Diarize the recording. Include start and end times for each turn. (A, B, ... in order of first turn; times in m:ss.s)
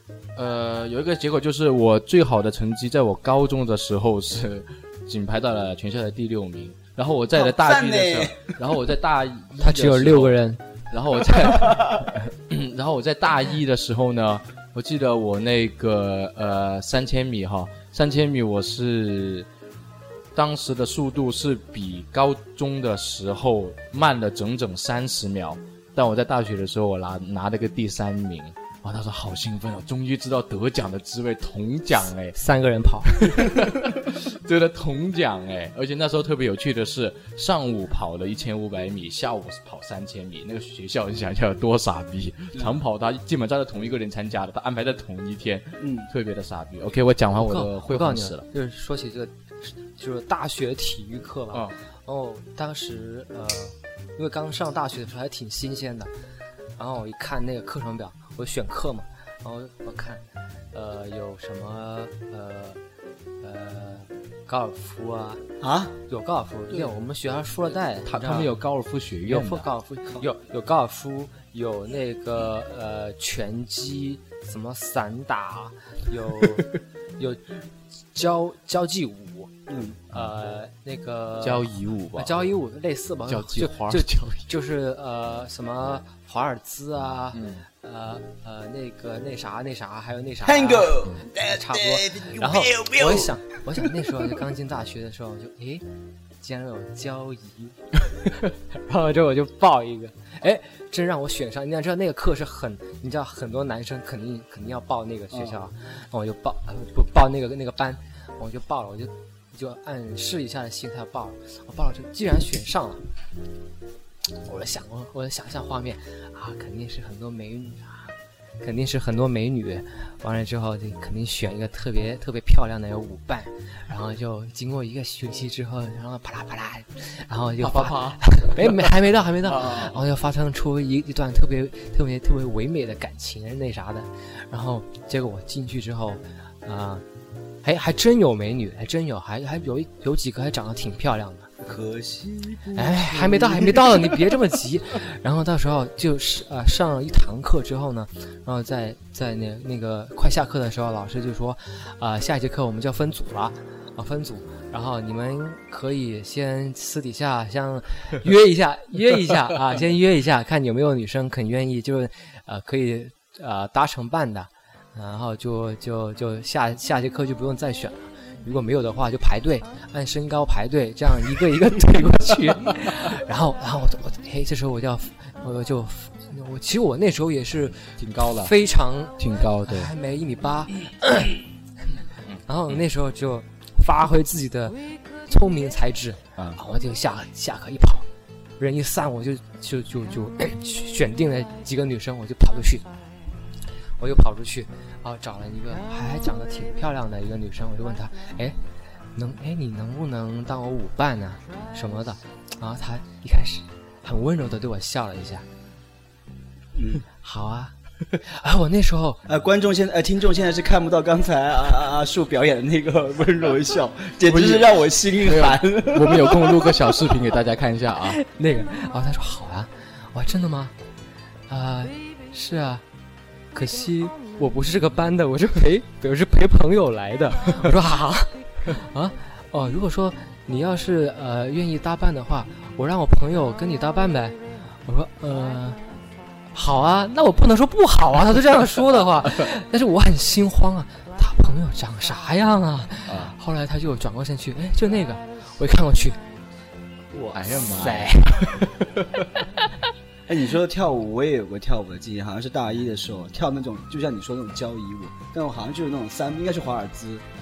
0:00.4-0:19.5 A
0:07.3-0:08.6 B
0:09.6-0:10.6 C
0:11.6-0:12.1 B
0:20.4-0:32.4 A
0:32.4-0:33.6 C
0:33.2-0:48.5 A
0:45.8-0:46.1 B
0:47.4-0:56.1 C
0:56.8-1:02.8 C
1:03.4-1:05.4 C
1:05.6-1:06.0 B
1:06.1-1:08.6 C
1:08.0-1:09.7 A
1:09.3-1:17.4 C
1:18.1-1:19.5 C
1:19.7-1:20.0 B
1:20.1-1:35.8 C
1:21.4-1:22.5 A
1:23.3-1:24.5 A
1:27.3-1:27.6 A
1:30.4-1:33.4 B
1:36.4-1:53.0 C
1:54.4-2:17.0 C
2:07.6-2:10.0 A
2:17.6-2:21.5 C
2:21.6-2:24.2 B
2:22.8-3:01.4 C
2:58.0-2:58.5 A
2:59.2-2:59.9 A
3:02.3-3:02.8 A
3:02.5-3:08.1 C
3:08.6-3:12.9 C
3:14.0-3:18.6 C
3:19.2-3:25.4 C
3:26.8-3:27.0 B
3:27.2-3:29.2 C
3:29.3-3:36.8 B
3:34.3-3:38.2 A
3:38.1-3:40.7 C
3:41.5-3:42.8 C
3:43.5-3:55.8 C
3:56.5-4:06.2 C
4:03.1-4:03.3 A
4:07.1-4:08.6 C
4:07.3-4:09.3 A
4:10.3-4:17.2 B